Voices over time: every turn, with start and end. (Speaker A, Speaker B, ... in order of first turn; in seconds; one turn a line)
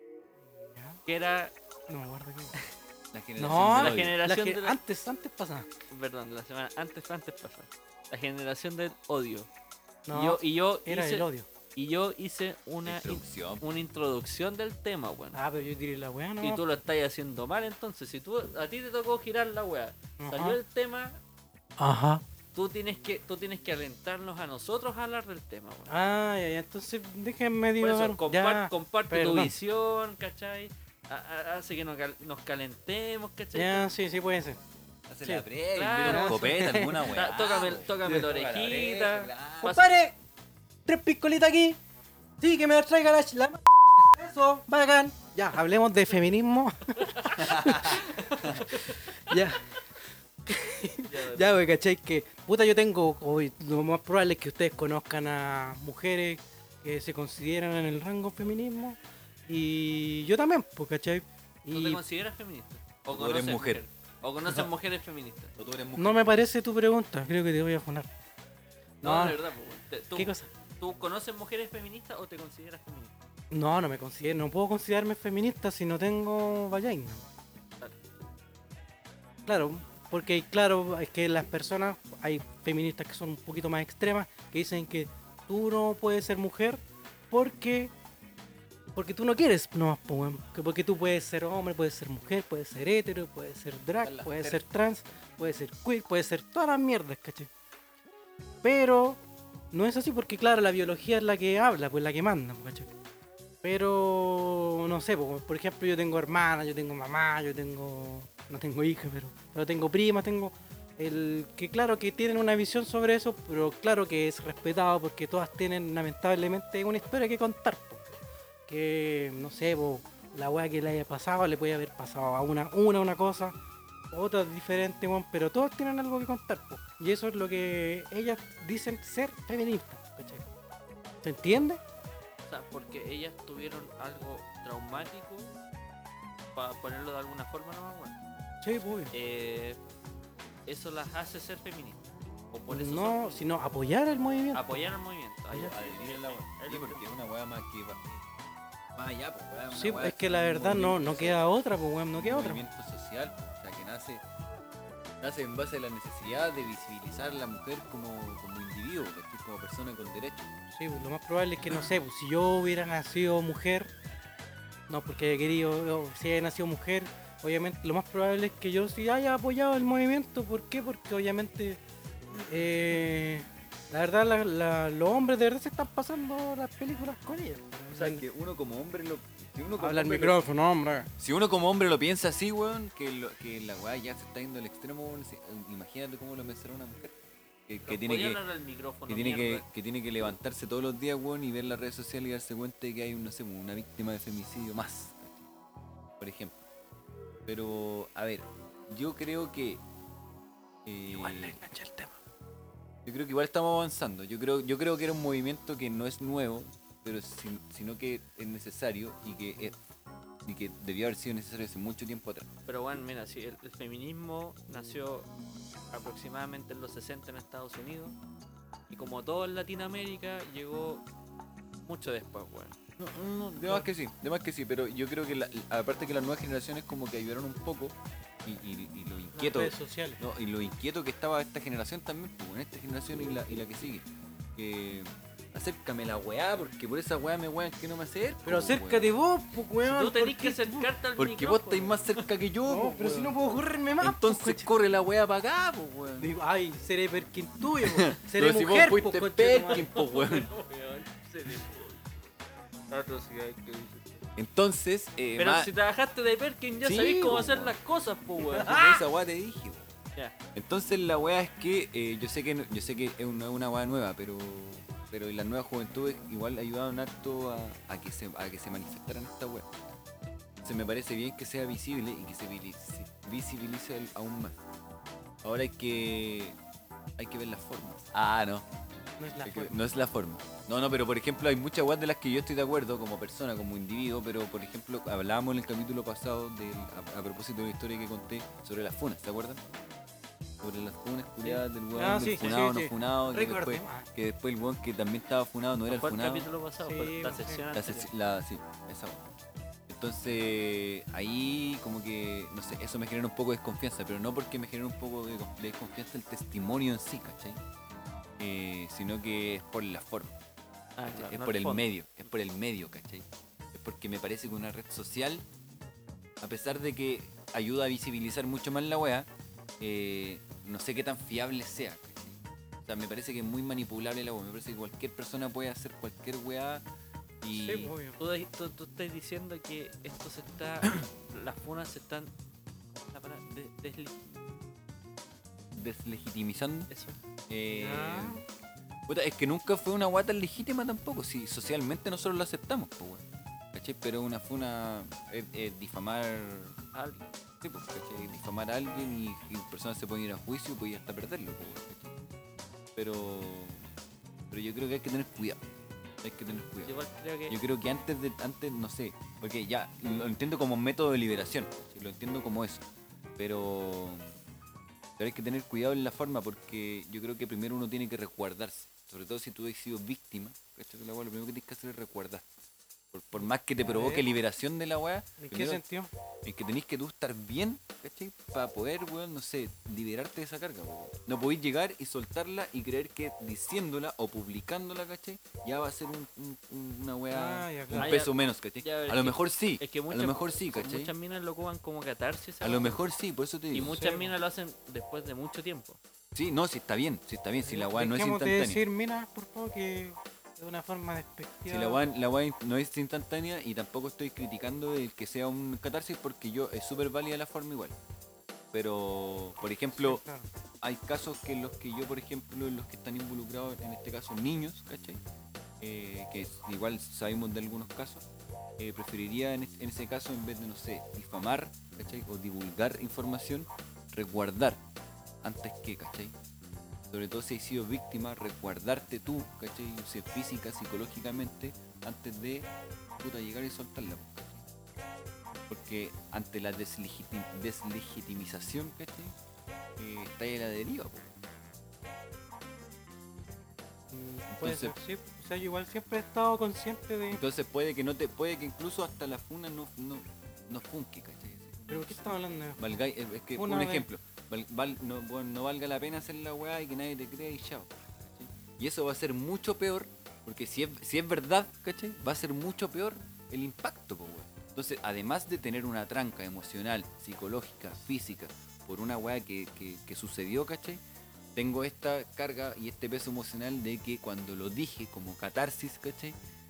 Speaker A: 0.5-1.0
Speaker B: 1.1-1.5
Speaker A: 1.9-2.5
Speaker C: 3.1-4.2
Speaker A: 3.4-5.7
Speaker B: 3.7-4.8
Speaker B: 5.9-9.5
Speaker A: 10.1-11.5
Speaker B: 10.1-15.4
Speaker C: 12.8-13.7
Speaker A: 15.3-16.6
Speaker B: 16.4-21.2
Speaker A: 20.2-20.6
Speaker A: 21.8-22.2
Speaker B: 22.6-25.9
Speaker A: 25.9-29.6
Speaker B: 27.8-33.9
Speaker A: 33.5-34.6
Speaker C: 35.1-39.8
Speaker B: 35.8-40.0
Speaker A: 36.1-37.0
Speaker A: 39.6-40.1
Speaker A: 40.9-41.8
Speaker A: 42.4-49.8
Speaker B: 47.0-47.5
Speaker C: 47.4-48.6
Speaker B: 48.1-49.2
Speaker A: 50.5-59.0
Speaker B: 51.1-51.5
Speaker A: 59.5-62.0
Speaker B: 61.7-65.6
Speaker C: 63.1-63.8
Speaker C: 65.6-66.3
Speaker A: 66.0-68.1
Speaker B: 69.0-73.2
Speaker A: 69.0-69.4
Speaker A: 70.2-70.5
Speaker A: 73.5-77.2
Speaker A: 79.5-87.9
Speaker A: 89.0-97.5
Speaker C: 94.0-94.7
Speaker A: 98.6-99.2
Speaker A: 99.7-102.9
Speaker A: 103.6-118.1
Speaker A: 118.7-123.5
Speaker A: 124.1-130.5
Speaker A: 131.2-131.8
Speaker B: 132.5-135.6
Speaker B: 136.5-138.2
Speaker A: 138.6-139.1
Speaker B: 139.1-139.8
Speaker B: 140.7-143.5
Speaker A: 142.7-144.9
Speaker B: 144.5-147.2
Speaker C: 145.5-148.4
Speaker C: 148.9-151.5
Speaker A: 149.7-152.6
Speaker C: 152.2-154.2
Speaker C: 155.2-160.5
Speaker A: 160.7-163.9
Speaker A: 164.9-171.8
Speaker A: 172.3-178.2
Speaker C: 177.9-180.4
Speaker A: 179.8-181.1
Speaker C: 181.2-188.4
Speaker B: 187.9-189.7
Speaker C: 189.1-195.5
Speaker C: 196.2-196.6
Speaker C: 197.5-199.8
Speaker C: 200.8-201.6
Speaker A: 201.2-202.1
Speaker C: 203.1-209.8
Speaker C: 210.4-212.5
Speaker B: 212.7-215.3
Speaker B: 215.9-218.2
Speaker B: 218.9-221.0
Speaker B: 221.9-222.8
Speaker C: 223.0-239.1
Speaker A: 229.3-230.2
Speaker A: 238.4-240.9
Speaker B: 239.8-242.3
Speaker C: 241.2-243.4
Speaker A: 242.7-244.7
Speaker C: 244.0-246.3
Speaker A: 246.2-249.9
Speaker C: 247.8-250.5
Speaker B: 249.7-252.3
Speaker B: 252.9-254.3
Speaker C: 254.4-255.7
Speaker B: 255.4-258.9
Speaker C: 256.8-257.8
Speaker C: 258.5-259.9
Speaker A: 258.6-258.8
Speaker C: 260.5-269.7
Speaker C: 270.6-274.6
Speaker C: 275.4-276.6
Speaker C: 277.2-278.7
Speaker A: 279.2-279.8
Speaker C: 279.4-289.6
Speaker C: 290.6-296.5
Speaker A: 291.4-294.1
Speaker B: 295.9-298.1
Speaker A: 296.8-297.6
Speaker C: 297.7-299.3
Speaker C: 299.9-307.6
Speaker C: 308.4-310.4
Speaker B: 311.0-311.9
Speaker C: 311.1-315.4
Speaker C: 316.4-319.3
Speaker C: 319.8-326.8
Speaker C: 327.4-327.9
Speaker A: 327.5-328.2
Speaker B: 328.2-332.3
Speaker B: 332.9-334.4
Speaker C: 335.8-336.9
Speaker B: 336.9-337.2
Speaker C: 337.5-338.4
Speaker A: 337.7-338.4
Speaker C: 339.1-346.8
Speaker B: 346.9-347.2
Speaker C: 347.6-352.2
Speaker C: 352.9-353.9
Speaker C: 354.5-355.6
Speaker C: 356.2-357.0
Speaker B: 356.8-357.6
Speaker C: 357.5-362.9
Speaker C: 363.4-364.4
Speaker C: 365.2-372.4
Speaker C: 373.1-375.8
Speaker A: 373.8-374.3
Speaker A: 375.4-376.1
Speaker C: 376.4-391.1
Speaker A: 387.3-388.2
Speaker B: 388.0-393.0
Speaker C: 392.6-394.2
Speaker B: 393.7-396.0
Speaker A: 393.9-394.3
Speaker C: 396.4-398.8
Speaker A: 397.6-402.0
Speaker C: 401.7-407.9
Speaker C: 408.7-410.2
Speaker A: 409.6-410.5
Speaker C: 410.8-415.2
Speaker C: 415.8-418.3
Speaker C: 418.8-424.8
Speaker C: 425.4-426.4
Speaker C: 427.1-434.7
Speaker C: 435.7-439.4
Speaker C: 440.0-441.4
Speaker A: 444.1-447.4
Speaker C: 444.5-444.9
Speaker C: 447.3-471.0
Speaker A: 451.9-452.9
Speaker A: 453.5-454.1
Speaker C: 471.6-476.4